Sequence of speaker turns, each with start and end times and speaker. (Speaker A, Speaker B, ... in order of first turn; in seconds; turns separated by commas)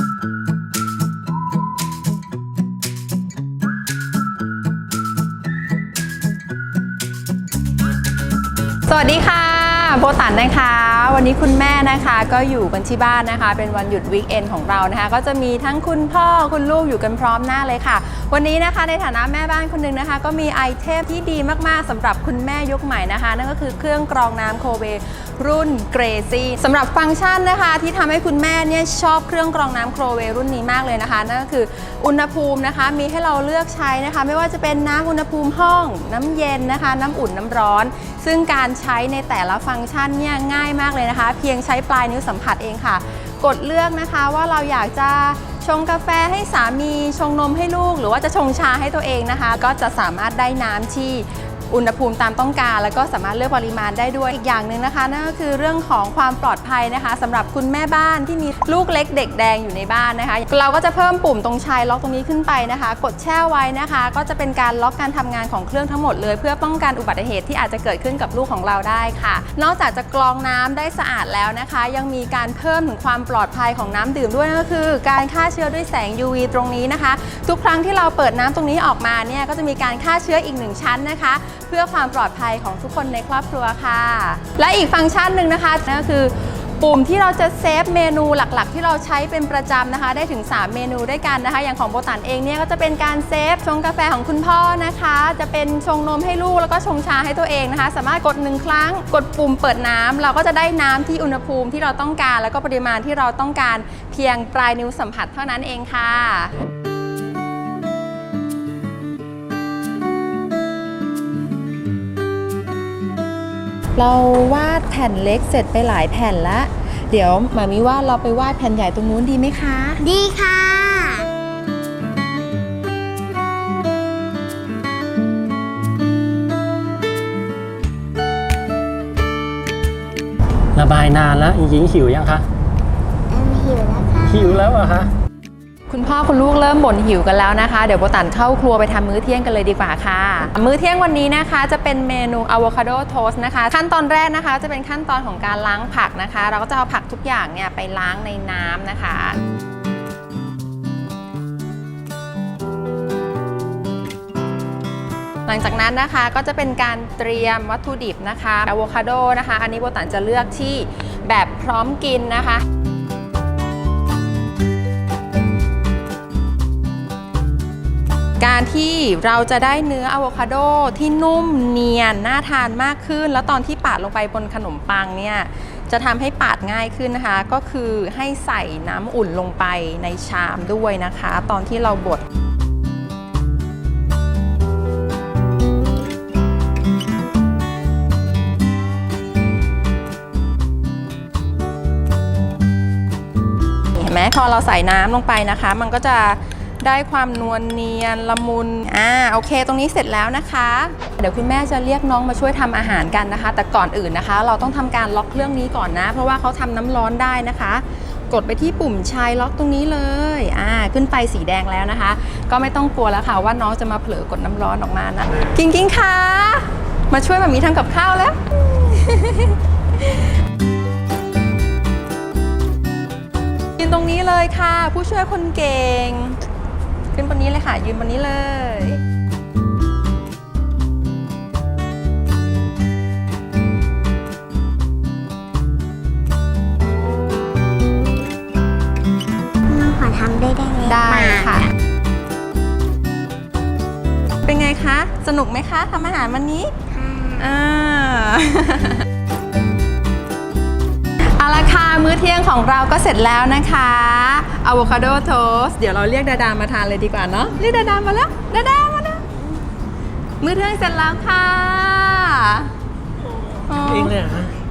Speaker A: 8.9-106.5, Speaker A: 114.0-120.0, Speaker B: 120.0-121.3, Speaker C: 130.7-132.4, Speaker B: 133.3-134.6, Speaker C: 134.3-135.1, Speaker A: 135.9-149.4, Speaker A: 155.4-162.6, Speaker A: 168.4-182.2, Speaker A: 193.9-220.3, Speaker A: 223.8-226.4, Speaker A: 227.1-229.0, Speaker B: 239.7-241.7, Speaker A: 240.8-241.7, Speaker A: 244.4-246.7, Speaker B: 246.9-247.4, Speaker A: 247.4-249.1, Speaker A: 251.4-259.2, Speaker A: 260.4-262.7, Speaker A: 263.7-264.1, Speaker C: 263.7-264.5